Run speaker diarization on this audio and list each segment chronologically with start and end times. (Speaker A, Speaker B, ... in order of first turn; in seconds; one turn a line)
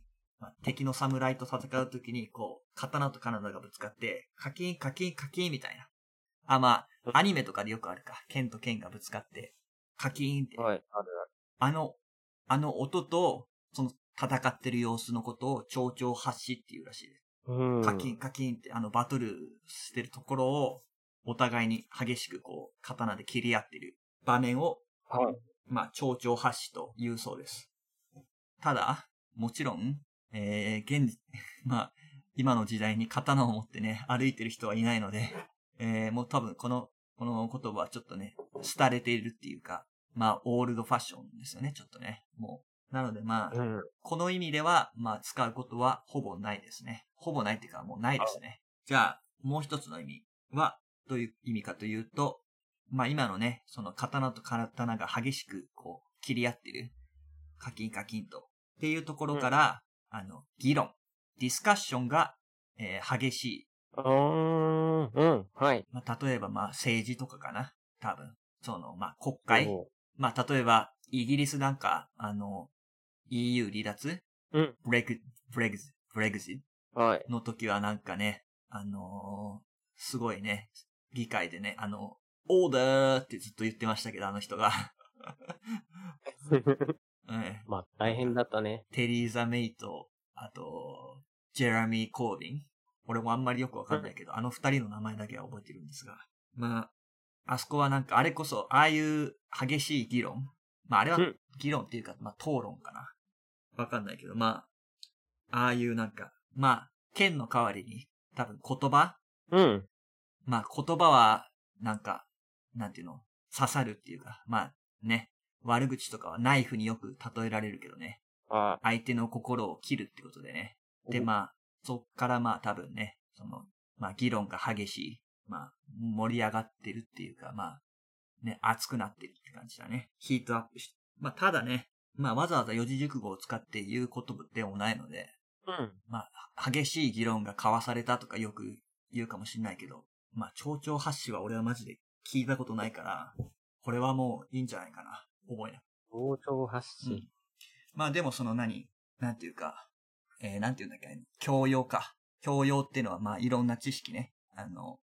Speaker A: 0.4-5.9
Speaker A: 6.5-10.7
Speaker B: 10.6-11.2
Speaker A: 11.6-11.9
Speaker A: 12.5-17.2
Speaker B: 17.5-18.1
Speaker A: 17.8-24.8
Speaker B: 25.1-25.4
Speaker A: 25.7-27.7
Speaker A: 28.6-56.9
Speaker B: 43.5-43.9
Speaker A: 57.6-63.6
Speaker B: 64.0-65.8
Speaker A: 65.9-72.7
Speaker B: 69.5-69.9
Speaker A: 73.3-74.2
Speaker A: 74.8-76.6
Speaker B: 76.9-77.3
Speaker A: 77.2-85.5
Speaker B: 86.5-86.9
Speaker A: 87.2-88.4
Speaker B: 87.7-88.8
Speaker A: 88.9-96.9
Speaker A: 97.5-103.1
Speaker A: 103.8-104.7
Speaker A: 105.5-109.2
Speaker B: 109.5-109.9
Speaker A: 110.5-118.2
Speaker B: 118.5-118.8
Speaker A: 118.8-127.8
Speaker B: 121.0-121.3
Speaker A: 128.4-135.3
Speaker B: 135.7-136.0
Speaker A: 136.1-145.8
Speaker B: 146.1-147.3
Speaker A: 147.0-147.3
Speaker A: 147.9-149.9
Speaker A: 150.4-155.0